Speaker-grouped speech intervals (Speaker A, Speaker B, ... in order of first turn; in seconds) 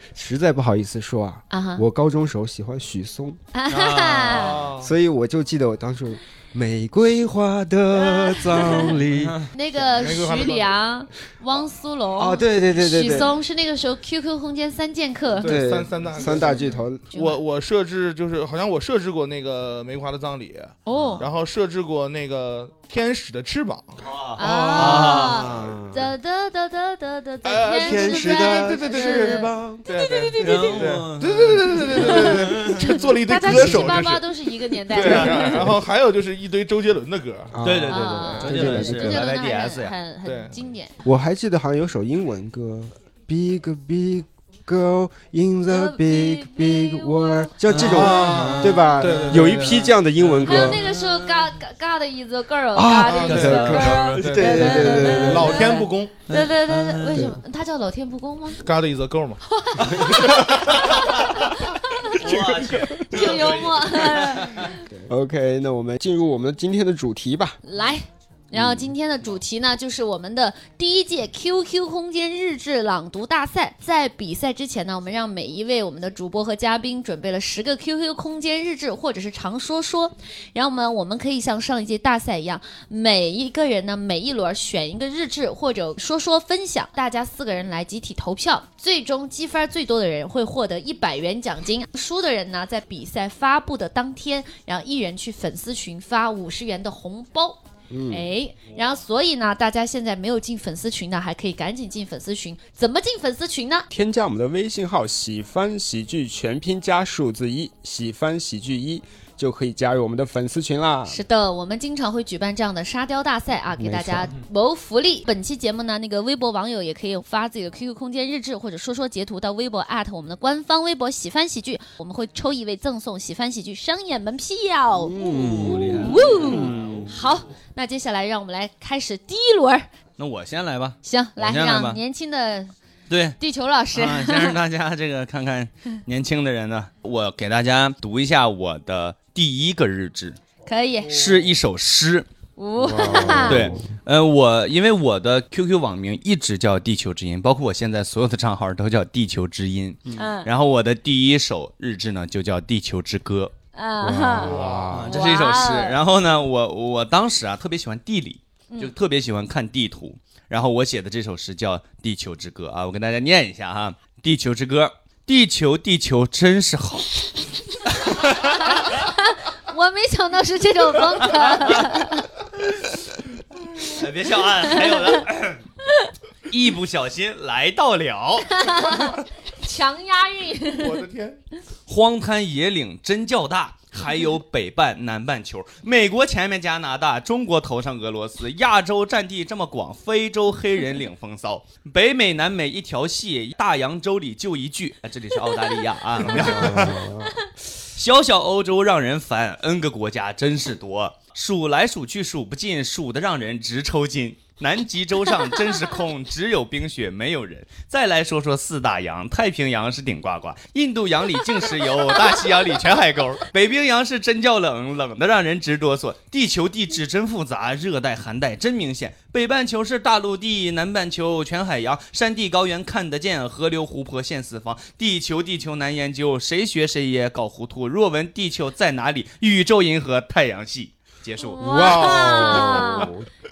Speaker A: 0.1-3.4, 4.8-9.4, 12.2-13.3, 15.4-17.1, 24.7-26.1, 27.7-29.8, 33.4-34.0, 37.5-39.2, 41.0-50.8, 52.7-55.7, 62.2-63.0, 65.0-67.6, 68.5-68.9, 97.9-98.2, 103.9-111.2, 113.8-114.3, 125.0-127.1, 142.8-143.9, 154.0-155.2, 196.3-197.3, 232.0-233.2
Speaker B: 1.5-1.8, 3.5-4.6, 7.9-9.0, 9.5-15.5, 16.2-17.4, 20.9-21.3, 24.4-31.0, 31.9-35.7, 37.8-40.9, 45.7-47.5, 48.0-48.5, 50.5-58.6, 59.5-62.2, 63.0-64.8, 67.6-103.9, 111.1-129.9, 131.0-132.7, 133.4-134.6, 140.7-141.2, 142.6-143.7, 150.2-150.5, 153.7-154.5, 155.1-156.0, 168.4-172.3, 174.9-175.2, 178.5-181.0, 197.2-197.5, 231.4-233.1
Speaker C: 3.7-4.6, 9.1-9.4, 20.9-21.2, 24.0-25.4, 30.4-32.7, 35.0-35.8, 37.6-39.9, 47.7-51.5, 53.2-55.6, 56.3-57.2, 62.1-64.7, 125.2-127.3, 130.2-132.0, 133.1-133.4, 133.9-140.4, 141.1-142.3, 143.4-153.5, 154.9-167.1, 168.1-168.8, 171.4-171.8, 173.8-175.6, 176.5-178.9, 181.9-197.1, 197.9-231.6
Speaker D: 4.3-4.9, 9.9-10.7, 15.3-23.9, 27.4-37.5, 40.2-40.6, 47.7-49.9, 53.1-56.1, 58.6-60.8, 154.3-155.0, 180.7-181.4, 196.2-196.7, 231.6-233.1